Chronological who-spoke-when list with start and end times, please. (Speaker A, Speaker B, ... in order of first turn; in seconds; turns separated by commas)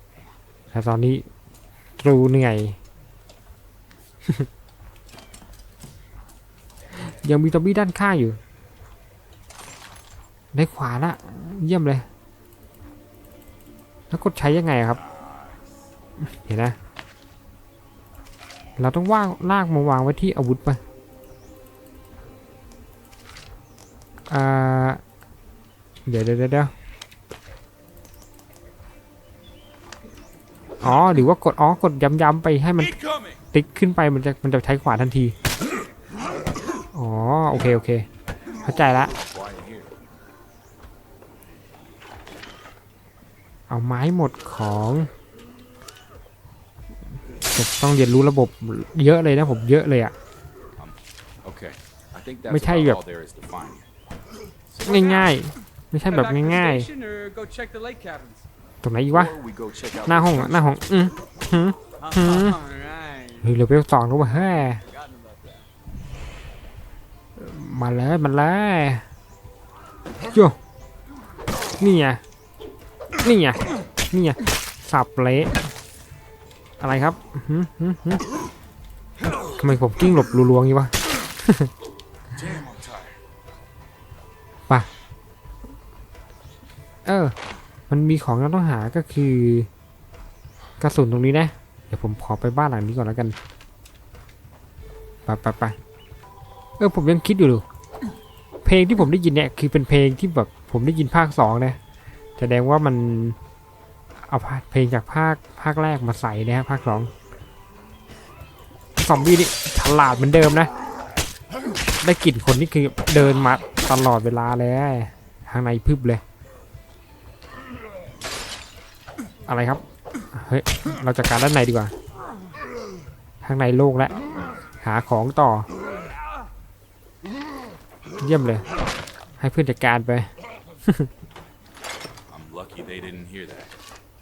Speaker A: 0.7-1.2, Speaker A: 2.0-2.8, Speaker A: 7.0-8.4, Speaker A: 10.5-12.1, Speaker A: 14.1-15.0, Speaker B: 15.1-15.6, Speaker A: 16.2-16.8, Speaker A: 18.8-20.8, Speaker A: 24.3-25.0, Speaker A: 26.1-26.7, Speaker A: 30.8-32.9, Speaker B: 32.8-33.4, Speaker A: 33.5-35.3, Speaker A: 36.9-38.0, Speaker A: 38.6-39.1, Speaker B: 39.0-39.9, Speaker A: 43.7-45.1, Speaker A: 47.5-50.1, Speaker B: 50.8-53.9, Speaker A: 52.5-53.0, Speaker C: 54.7-55.3, Speaker A: 54.8-56.9, Speaker C: 56.0-58.5, Speaker A: 58.8-59.4, Speaker B: 59.1-60.6, Speaker A: 60.1-62.6, Speaker C: 62.0-63.5, Speaker A: 63.4-64.8, Speaker C: 64.3-65.7, Speaker A: 67.3-69.0, Speaker A: 71.8-72.2, Speaker A: 73.2-75.6, Speaker A: 76.8-78.2, Speaker A: 79.5-81.7, Speaker B: 82.3-83.2, Speaker A: 87.0-87.3, Speaker A: 87.9-89.7, Speaker A: 90.8-93.3, Speaker A: 95.2-95.8, Speaker A: 96.8-97.6, Speaker A: 98.6-101.8, Speaker A: 102.4-103.4, Speaker A: 104.2-107.1, Speaker A: 109.0-110.7, Speaker A: 112.0-116.2, Speaker A: 119.5-119.8, Speaker A: 120.3-121.9, Speaker A: 123.4-124.2, Speaker A: 124.8-125.7, Speaker A: 128.2-128.6, Speaker A: 129.4-130.3, Speaker A: 130.8-131.1, Speaker B: 132.3-133.7